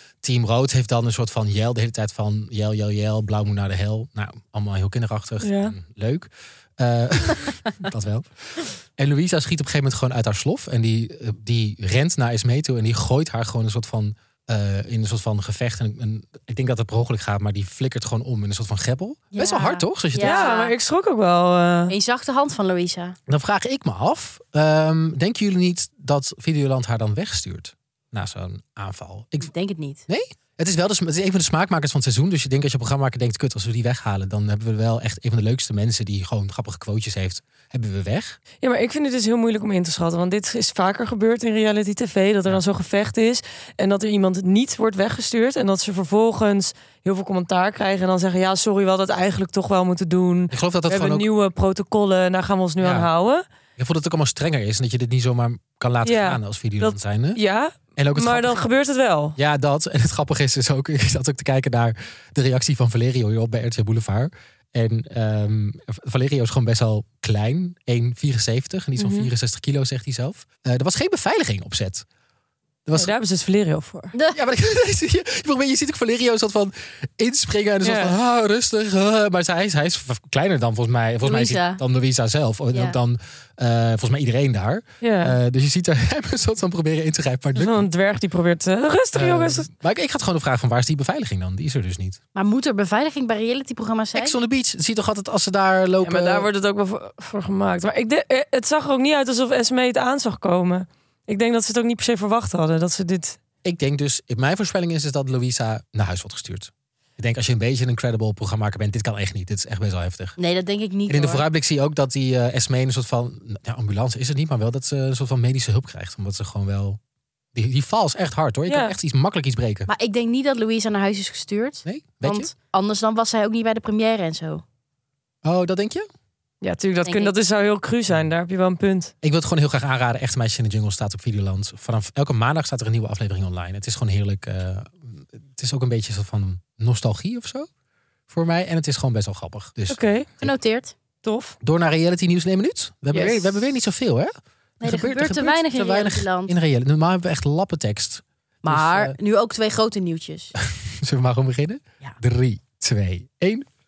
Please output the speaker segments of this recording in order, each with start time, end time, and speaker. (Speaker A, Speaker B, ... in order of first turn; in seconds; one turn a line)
Speaker A: 0.2-20.5
Speaker B: 5.4-5.8
Speaker C: 19.4-20.7
Speaker B: 20.2-21.9
Speaker C: 21.9-23.2
Speaker A: 23.3-29.5
Speaker C: 29.4-30.0
Speaker A: 30.1-38.4
Speaker B: 38.6-53.4
Speaker A: 50.5-51.3
Speaker A: 52.8-53.1
Speaker A: 53.8-57.4
Speaker B: 56.0-59.4
Speaker A: 58.0-58.6
Speaker A: 59.4-72.0
Speaker B: 69.0-69.3
Speaker B: 73.0-74.1
Speaker A: 74.3-87.9
Speaker B: 77.8-78.1
Speaker C: 81.2-81.8
Speaker B: 85.0-85.4
Speaker B: 87.5-89.7
Speaker A: 89.1-92.2
Speaker C: 92.3-94.3
Speaker A: 94.2-96.5
Speaker B: 96.0-103.4
Speaker A: 103.7-110.4
Speaker C: 110.4-111.4
Speaker A: 111.1-117.0
Speaker A: 117.5-119.9
Speaker B: 118.7-119.0
Speaker C: 119.9-124.6
Speaker A: 121.8-122.5
Speaker A: 125.4-126.1
Speaker B: 126.6-129.1
Speaker C: 127.0-127.3
Speaker A: 129.2-137.7
Speaker A: 138.3-140.5
Speaker B: 139.9-140.3
Speaker C: 140.4-140.9
Speaker B: 141.2-141.6
Speaker A: 141.6-149.2
Speaker B: 143.1-143.5
Speaker C: 144.8-146.5
Speaker C: 148.7-150.5
Speaker A: 151.0-153.7